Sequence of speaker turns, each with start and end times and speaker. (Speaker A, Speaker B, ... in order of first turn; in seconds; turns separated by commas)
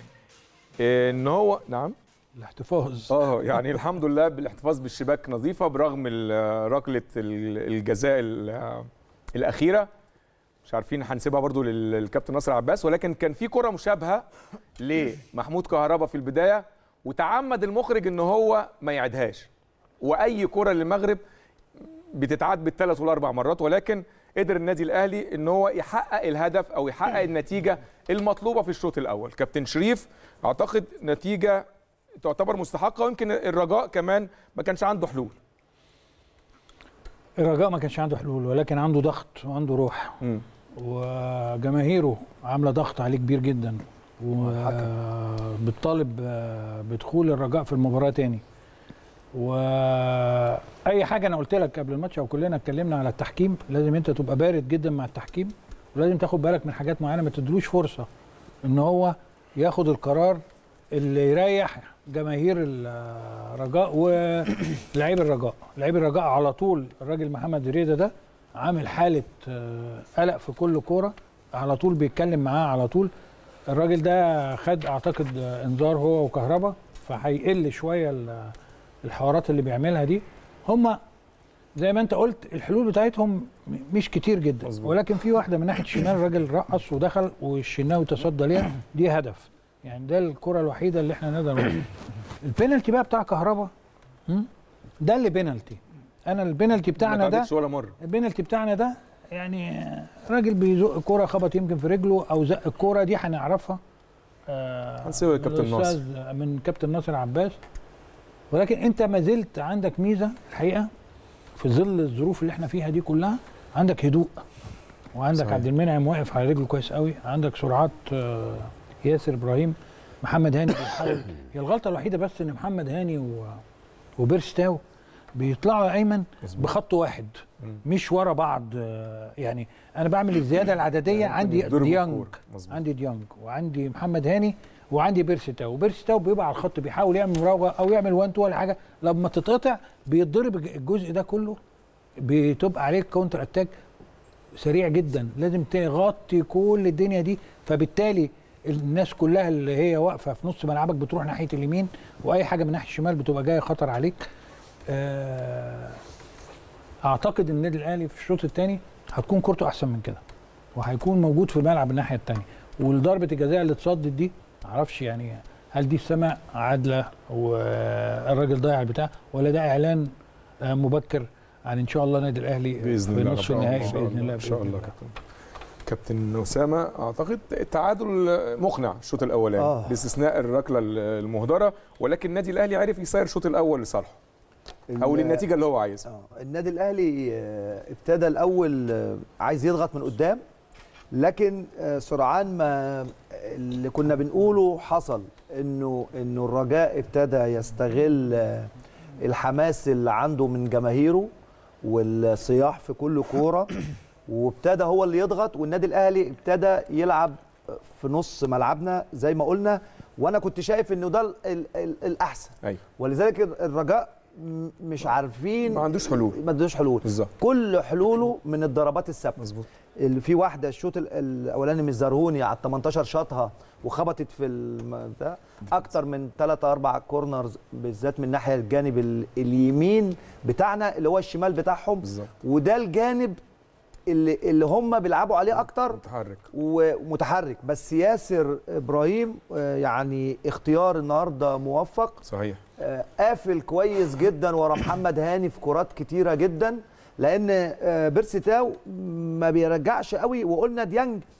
Speaker A: 0.8-1.9, Speaker B: 2.4-3.1, Speaker A: 3.1-9.9, Speaker A: 10.7-14.3, Speaker A: 14.8-19.5, Speaker A: 20.0-21.2, Speaker A: 22.1-31.7, Speaker A: 32.2-35.4, Speaker B: 37.4-40.2, Speaker B: 40.8-48.4, Speaker B: 49.3-58.1, Speaker B: 58.6-60.4, Speaker B: 60.9-73.1, Speaker B: 73.7-81.0, Speaker B: 81.8-91.9, Speaker A: 84.7-84.9, Speaker B: 92.4-93.7, Speaker B: 95.0-97.5, Speaker A: 97.0-97.9, Speaker B: 98.0-103.8, Speaker B: 104.5-107.6, Speaker A: 105.0-106.0, Speaker B: 108.5-110.9, Speaker B: 111.6-114.4, Speaker B: 115.2-123.6, Speaker A: 115.4-115.6, Speaker B: 124.2-124.8, Speaker B: 125.3-141.6, Speaker A: 131.1-132.8, Speaker B: 142.2-143.7, Speaker B: 144.6-154.2, Speaker B: 154.9-156.0, Speaker B: 157.0-160.2, Speaker B: 160.8-170.1, Speaker B: 170.6-174.9, Speaker A: 172.8-175.1, Speaker A: 175.8-184.2, Speaker C: 179.6-180.0, Speaker C: 184.9-185.5, Speaker A: 185.0-186.1, Speaker C: 186.1-190.4, Speaker C: 191.1-198.7, Speaker C: 199.2-201.3, Speaker C: 201.8-219.4, Speaker A: 215.7-216.4, Speaker A: 217.0-217.3, Speaker A: 219.4-219.7, Speaker C: 220.0-233.4, Speaker A: 232.0-232.3, Speaker C: 234.1-236.0, Speaker A: 235.9-236.4, Speaker C: 236.5-242.2, Speaker A: 242.2-242.6, Speaker C: 242.8-251.2